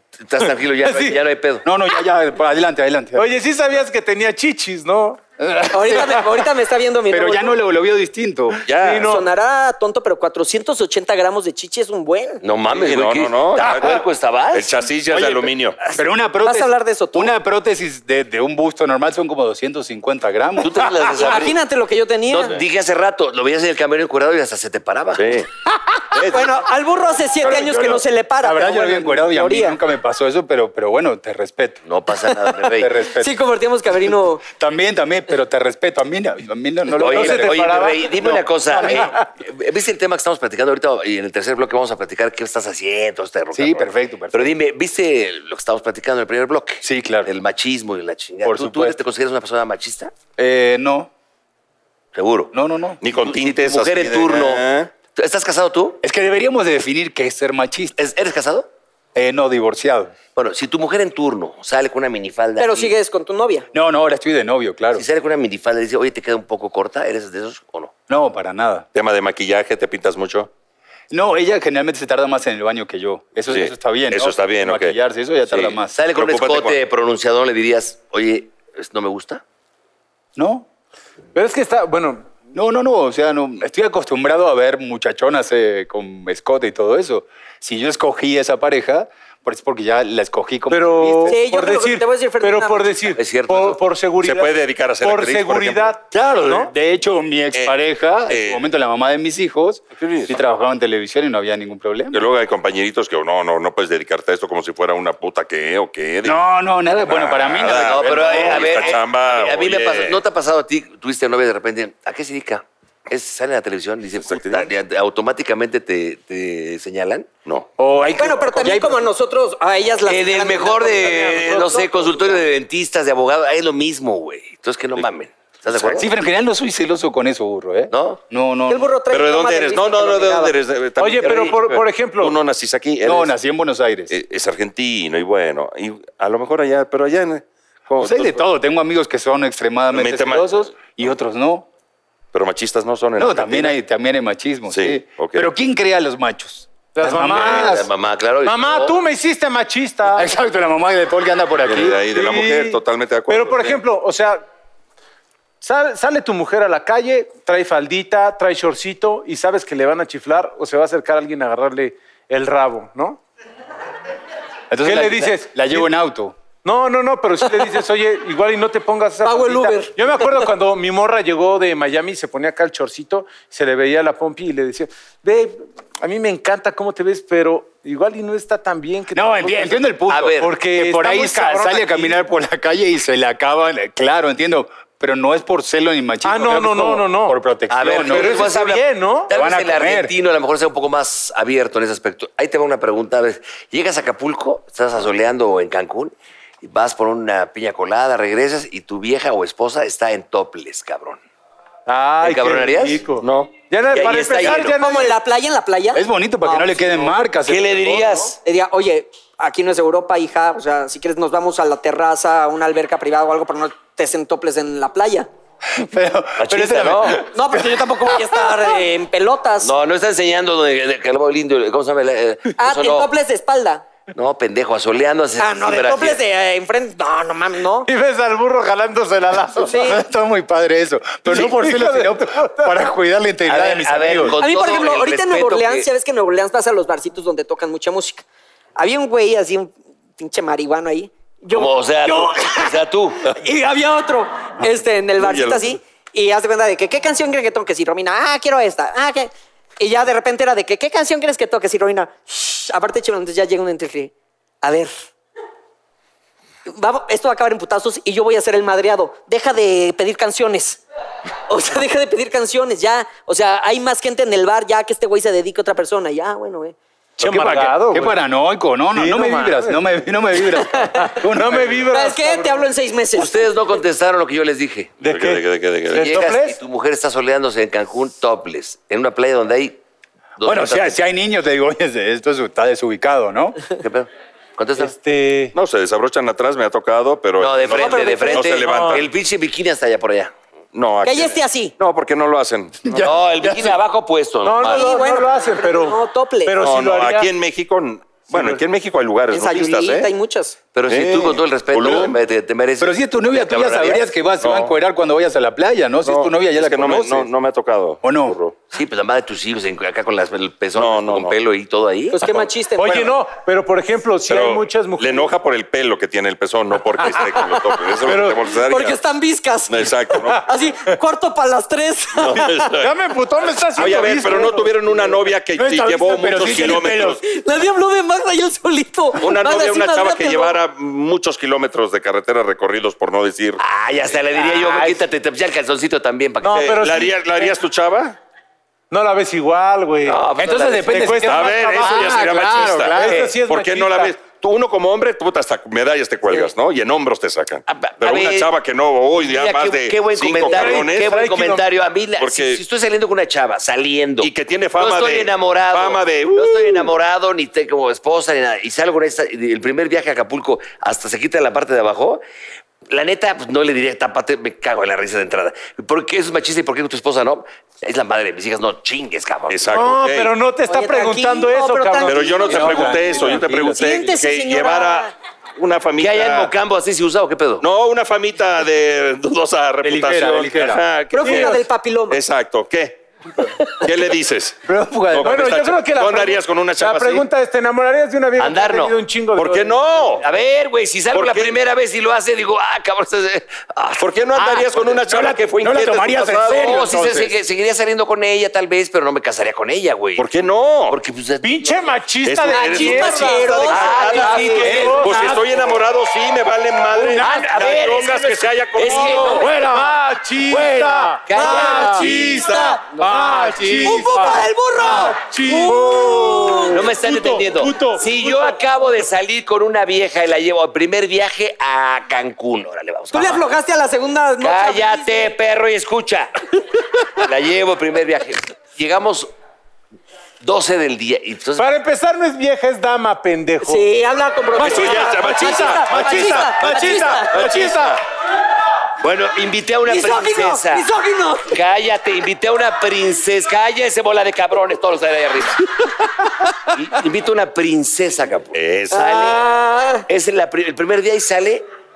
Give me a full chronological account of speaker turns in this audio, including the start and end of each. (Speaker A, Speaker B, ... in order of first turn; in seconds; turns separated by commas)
Speaker A: 0.2-1.7, Speaker B: 0.8-1.2, Speaker C: 1.6-3.3, Speaker B: 3.1-5.2, Speaker C: 5.4-6.4, Speaker D: 5.7-7.5, Speaker C: 7.1-8.6, Speaker E: 8.7-9.2, Speaker B: 8.7-9.3, Speaker D: 9.0-12.4, Speaker A: 12.4-14.8, Speaker E: 12.7-15.8, Speaker C: 15.1-20.9, Speaker D: 16.4-17.3, Speaker A: 20.6-21.6, Speaker D: 21.1-22.6, Speaker A: 22.3-25.4, Speaker E: 25.1-25.5, Speaker E: 26.1-26.5, Speaker D: 26.1-29.8, Speaker C: 27.4-31.8, Speaker A: 31.9-32.9, Speaker C: 32.7-33.4, Speaker D: 33.1-34.4, Speaker C: 34.5-38.0, Speaker B: 37.0-39.2, Speaker A: 37.0-50.1, Speaker C: 38.7-39.2, Speaker C: 43.5-44.5, Speaker C: 46.8-47.3, Speaker C: 48.4-49.0, Speaker C: 50.4-51.1, Speaker A: 52.1-52.5, Speaker C: 52.5-53.0, Speaker E: 53.0-54.9, Speaker A: 53.1-56.0, Speaker C: 56.0-58.0, Speaker A: 58.0-58.7, Speaker C: 59.1-60.1, Speaker A: 60.4-62.9, Speaker D: 62.6-63.7, Speaker C: 63.7-65.0, Speaker A: 64.9-67.9, Speaker C: 68.1-68.8, Speaker E: 68.9-70.5, Speaker C: 71.1-76.0, Speaker E: 73.5-74.9, Speaker E: 75.5-76.8, Speaker A: 75.9-79.4, Speaker C: 80.3-80.7, Speaker B: 81.3-82.3, Speaker C: 82.5-91.4, Speaker B: 90.7-96.7, Speaker D: 91.2-93.0, Speaker A: 93.1-93.8, Speaker E: 94.2-96.0, Speaker C: 96.1-102.2, Speaker E: 98.3-98.6, Speaker E: 100.0-100.3, Speaker E: 102.1-106.4, Speaker C: 106.2-109.0, Speaker E: 107.0-110.2, Speaker A: 107.6-117.3, Speaker E: 114.2-114.7, Speaker C: 117.8-119.0, Speaker D: 118.2-122.4, Speaker A: 120.1-126.1, Speaker E: 125.7-126.0, Speaker C: 126.0-128.9, Speaker A: 127.9-128.2, Speaker D: 128.7-130.5, Speaker E: 129.1-133.3, Speaker B: 131.0-132.4, Speaker C: 133.0-134.1, Speaker E: 134.1-138.5, Speaker C: 138.0-141.7, Speaker E: 139.9-140.5, Speaker E: 142.3-143.7, Speaker C: 143.2-147.9, Speaker E: 144.7-145.5, Speaker B: 146.9-147.9, Speaker A: 147.3-149.0, Speaker B: 148.4-150.3, Speaker C: 150.1-152.1, Speaker E: 151.7-153.8, Speaker B: 152.1-154.4, Speaker B: 155.6-163.2, Speaker C: 164.7-166.4, Speaker B: 164.8-165.9, Speaker B: 166.6-179.8, Speaker D: 169.2-170.2, Speaker C: 179.1-188.5, Speaker A: 180.1-180.5, Speaker B: 180.4-182.2, Speaker B: 186.2-187.4, Speaker A: 187.7-201.2, Speaker B: 188.0-189.3, Speaker C: 189.3-190.1, Speaker B: 201.9-205.2, Speaker A: 202.2-203.0, Speaker E: 203.2-203.5, Speaker A: 203.9-204.8, Speaker D: 204.8-207.1, Speaker C: 205.9-208.0, Speaker A: 207.4-208.4, Speaker D: 208.4-215.3, Speaker C: 215.7-218.8, Speaker A: 216.4-217.2, Speaker D: 217.2-219.7, Speaker A: 219.6-223.1, Speaker D: 222.6-223.8, Speaker A: 224.1-226.2, Speaker D: 225.4-227.9, Speaker B: 227.8-229.9, Speaker D: 229.6-230.0, Speaker C: 229.7-234.4, Speaker B: 231.2-232.7, Speaker A: 233.4-235.9, Speaker D: 234.4-238.2, Speaker D: 238.8-254.9, Speaker A: 241.5-243.3, Speaker E: 245.2-245.7, Speaker D: 256.7-260.8, Speaker D: 261.5-266.8, Speaker B: 267.2-268.1, Speaker C: 267.2-271.7, Speaker B: 268.9-269.8, Speaker D: 270.5-271.1, Speaker B: 271.1-272.7, Speaker D: 271.8-273.5, Speaker A: 273.1-275.0, Speaker E: 275.0-276.1, Speaker B: 275.0-276.6, Speaker A: 275.9-279.8, Speaker A: 280.4-281.0, Speaker C: 280.4-283.6, Speaker A: 283.8-284.9, Speaker B: 284.8-285.5, Speaker E: 285.5-289.1, Speaker A: 287.4-290.3, Speaker D: 287.7-288.7, Speaker B: 288.6-289.0, Speaker E: 290.7-293.0, Speaker D: 291.0-291.7, Speaker C: 292.8-293.8, Speaker A: 293.0-294.9, Speaker B: 294.4-297.3, Speaker D: 294.6-296.5, Speaker E: 296.6-300.1, Speaker B: 298.3-298.6, Speaker D: 299.3-300.6, Speaker A: 300.7-304.1, Speaker E: 300.9-302.2, Speaker C: 302.8-307.3, Speaker E: 304.4-304.8, Speaker E: 306.0-308.6, Speaker C: 308.0-308.4, Speaker A: 308.7-312.4, Speaker E: 310.8-311.3, Speaker D: 312.1-313.1, Speaker B: 312.8-315.3, Speaker E: 314.3-319.0, Speaker B: 317.0-318.4, Speaker D: 318.5-322.6, Speaker E: 319.7-320.5, Speaker E: 322.1-322.9, Speaker B: 322.8-325.2, Speaker E: 323.8-327.2, Speaker C: 325.6-327.2, Speaker D: 327.2-330.6, Speaker E: 329.2-333.6, Speaker A: 333.6-336.7, Speaker B: 334.4-335.0, Speaker B: 336.4-337.5, Speaker E: 336.5-338.2, Speaker B: 338.9-340.2, Speaker A: 340.0-341.2, Speaker C: 340.4-343.4, Speaker B: 340.9-344.1, Speaker E: 341.2-351.2, Speaker A: 347.7-348.5, Speaker A: 349.1-362.2, Speaker B: 350.4-351.6, Speaker E: 352.2-352.6, Speaker E: 354.2-356.9, Speaker A: 362.9-369.6, Speaker E: 369.5-370.3, Speaker B: 369.7-372.5, Speaker D: 370.7-375.1, Speaker E: 372.1-376.5, Speaker C: 372.5-374.0, Speaker A: 376.0-377.6, Speaker E: 377.6-383.0, Speaker C: 379.8-380.8, Speaker D: 381.1-382.2, Speaker B: 381.2-381.6, Speaker E: 383.7-387.2, Speaker C: 384.6-385.4, Speaker B: 385.2-389.8, Speaker A: 388.4-389.0, Speaker E: 389.4-390.2, Speaker A: 390.2-394.9, Speaker E: 391.1-391.6, Speaker E: 394.0-396.9, Speaker C: 394.4-397.3, Speaker A: 396.5-400.3, Speaker E: 400.2-401.0, Speaker A: 400.9-401.8, Speaker B: 401.4-405.3, Speaker E: 402.2-409.5, Speaker D: 402.4-404.5, Speaker A: 403.2-405.1, Speaker C: 404.6-405.7, Speaker C: 406.9-407.9, Speaker A: 407.1-409.5, Speaker C: 408.9-415.1, Speaker B: 409.2-418.6, Speaker A: 411.2-412.3, Speaker E: 411.8-412.8, Speaker D: 413.8-416.8, Speaker A: 416.7-423.4, Speaker D: 423.1-425.3, Speaker A: 424.4-426.4, Speaker A: 427.1-429.3, Speaker A: 430.4-431.7, Speaker B: 431.6-433.9, Speaker D: 433.6-437.4, Speaker B: 434.6-438.0, Speaker E: 434.6-438.0, Speaker A: 439.0-440.9, Speaker D: 439.9-441.6, Speaker A: 441.5-445.7, Speaker A: 446.7-449.4, Speaker E: 448.5-449.0, Speaker D: 448.9-450.1, Speaker A: 450.1-451.7